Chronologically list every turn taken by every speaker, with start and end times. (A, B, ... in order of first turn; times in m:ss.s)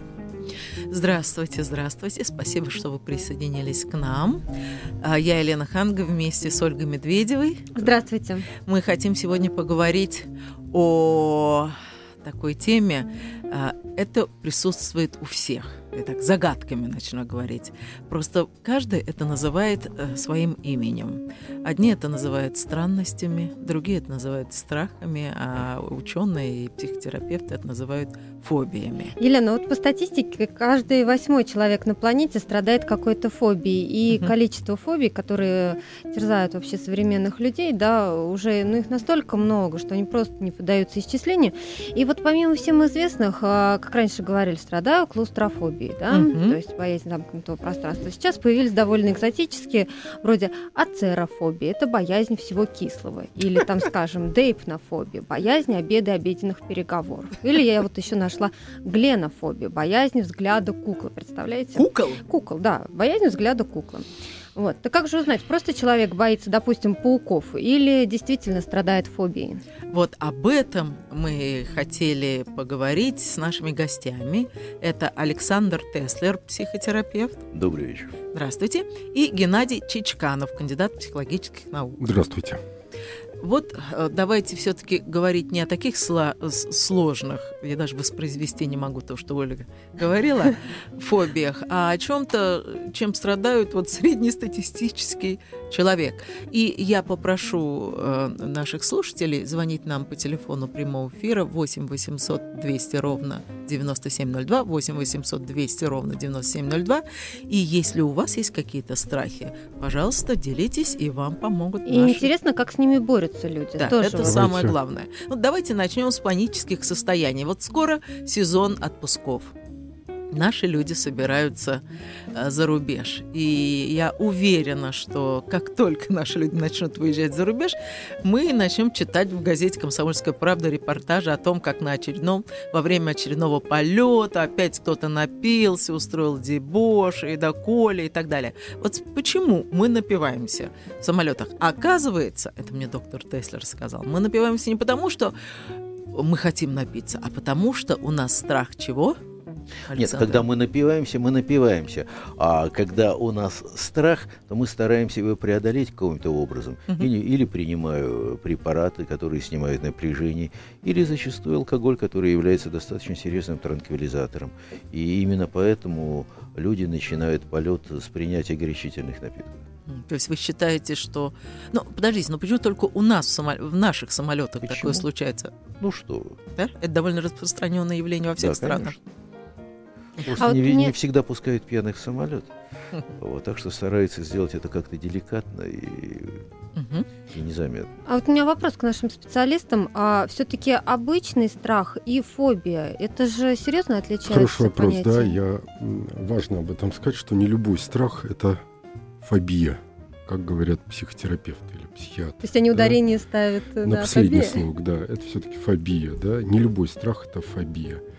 0:00.9-0:04.4 A
0:05.0-0:07.7 A
0:07.7-0:08.5 B
0:08.6-0:29.2 A
0:29.2-1:09.6 B
0:46.1-0:46.6 A
1:01.8-1:02.2 A
1:09.9-1:17.4 A
1:17.5-1:18.1 C
1:18.3-1:22.0 A
1:22.0-1:22.6 D
1:23.4-1:52.3 A
1:51.8-1:54.4 B
1:53.8-1:59.5 A
1:54.0-1:54.8 D
2:00.3-2:01.8 A
2:02.3-2:25.3 A
2:26.1-2:29.2 A
2:29.9-2:30.4 A
2:29.9-2:49.6 C
2:49.9-2:55.5 A
2:54.6-2:55.0 C
2:55.8-2:56.4 C
2:56.6-2:59.0 A
2:58.4-2:59.0 C
3:00.2-3:02.5 C
3:00.4-3:00.9 B
3:03.1-3:06.4 C
3:06.8-3:07.1 A
3:07.3-3:07.9 C
3:08.1-3:15.3 B
3:14.2-3:18.6 D
3:19.2-3:23.0 D
3:22.4-3:24.6 B
3:23.8-3:28.0 D